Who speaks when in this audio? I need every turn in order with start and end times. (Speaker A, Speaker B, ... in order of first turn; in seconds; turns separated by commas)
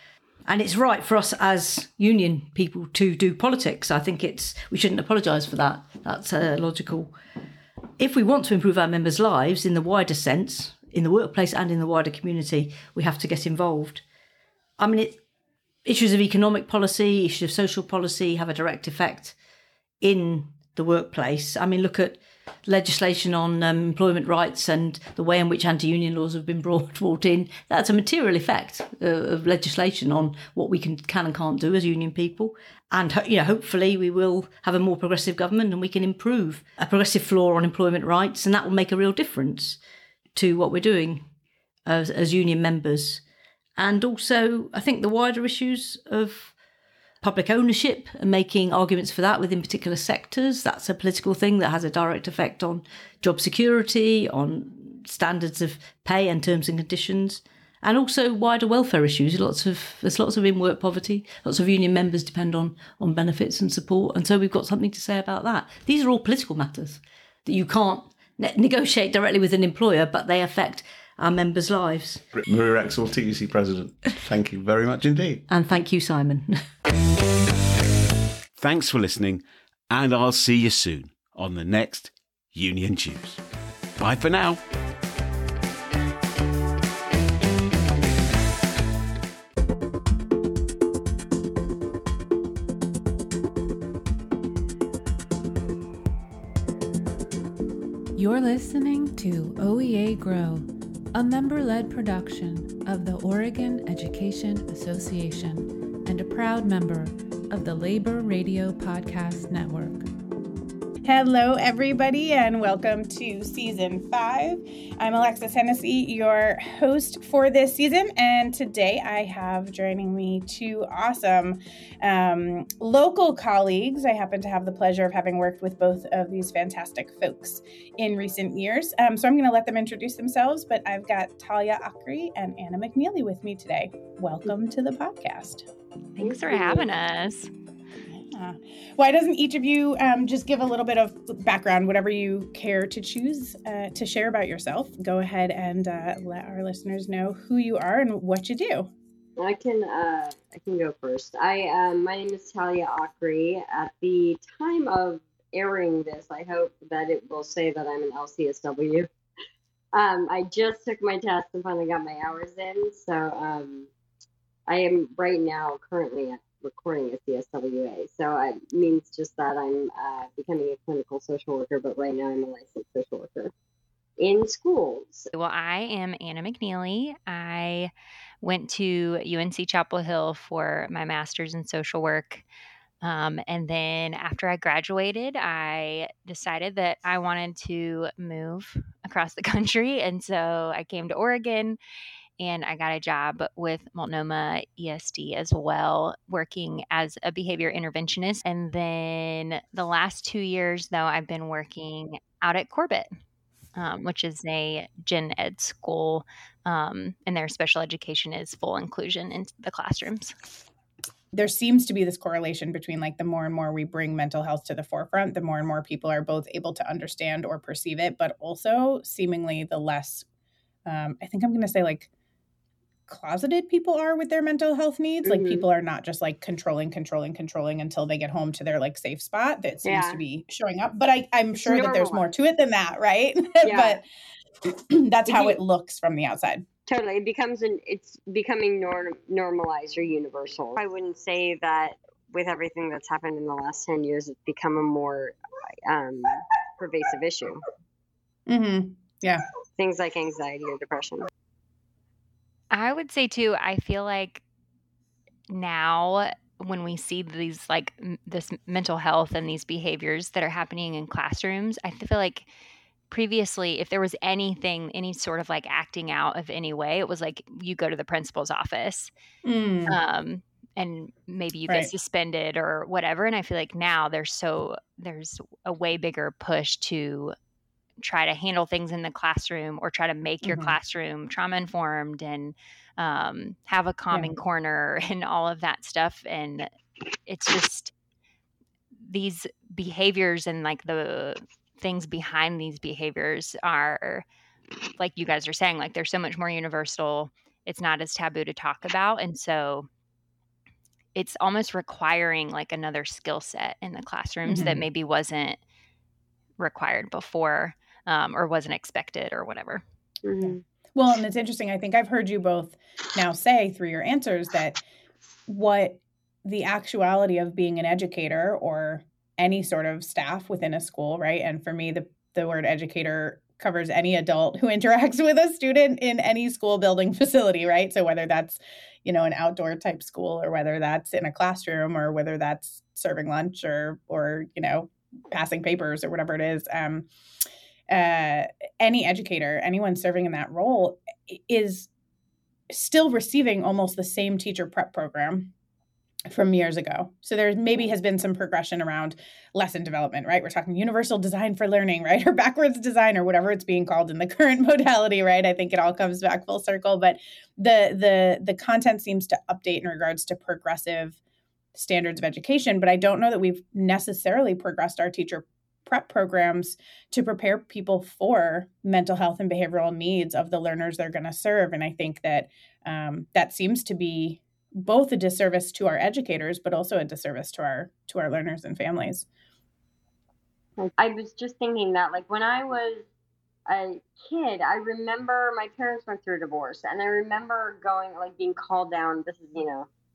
Speaker A: 0.5-7.1, Speaker A: 8.0-14.0, Speaker A: 14.8-15.2, Speaker A: 15.8-19.4, Speaker A: 20.0-39.8, Speaker A: 40.3-41.3, Speaker A: 41.9-43.2, Speaker A: 43.8-46.5, Speaker A: 47.2-72.2, Speaker B: 72.3-75.4, Speaker A: 75.5-76.6, Speaker B: 78.5-83.4, Speaker B: 84.0-84.6, Speaker C: 98.1-110.1, Speaker D: 111.0-135.7, Speaker E: 136.2-137.5, Speaker F: 136.2-136.8, Speaker D: 138.3-148.9, Speaker F: 149.4-159.1, Speaker F: 159.9-163.9, Speaker F: 164.7-173.5, Speaker F: 174.2-175.3, Speaker E: 175.3-177.9, Speaker E: 178.4-182.4, Speaker E: 183.0-191.8, Speaker E: 192.4-203.1, Speaker E: 203.8-210.3, Speaker D: 211.3-220.2, Speaker D: 220.8-222.1, Speaker D: 223.1-234.0, Speaker F: 225.3-225.6, Speaker F: 229.8-230.2, Speaker F: 231.6-232.2, Speaker F: 233.6-234.0, Speaker D: 234.9-236.7, Speaker F: 235.3-235.6, Speaker F: 236.8-245.3, Speaker F: 245.9-247.6, Speaker D: 248.5-249.4, Speaker F: 249.7-251.3, Speaker E: 252.7-254.4, Speaker E: 255.5-262.5, Speaker E: 263.1-269.1, Speaker D: 269.4-270.0, Speaker E: 269.9-277.3, Speaker E: 278.0-286.7, Speaker D: 280.4-280.8, Speaker E: 287.3-287.9, Speaker E: 289.0-294.2, Speaker E: 295.0-299.9, Speaker E: 301.1-305.6, Speaker D: 304.4-304.8, Speaker E: 306.6-309.8, Speaker F: 310.2-310.6, Speaker D: 310.4-314.8, Speaker D: 315.5-337.1, Speaker D: 337.9-341.9, Speaker D: 342.7-345.5, Speaker D: 346.3-361.2, Speaker D: 361.7-379.3, Speaker F: 380.8-383.0, Speaker F: 383.7-389.9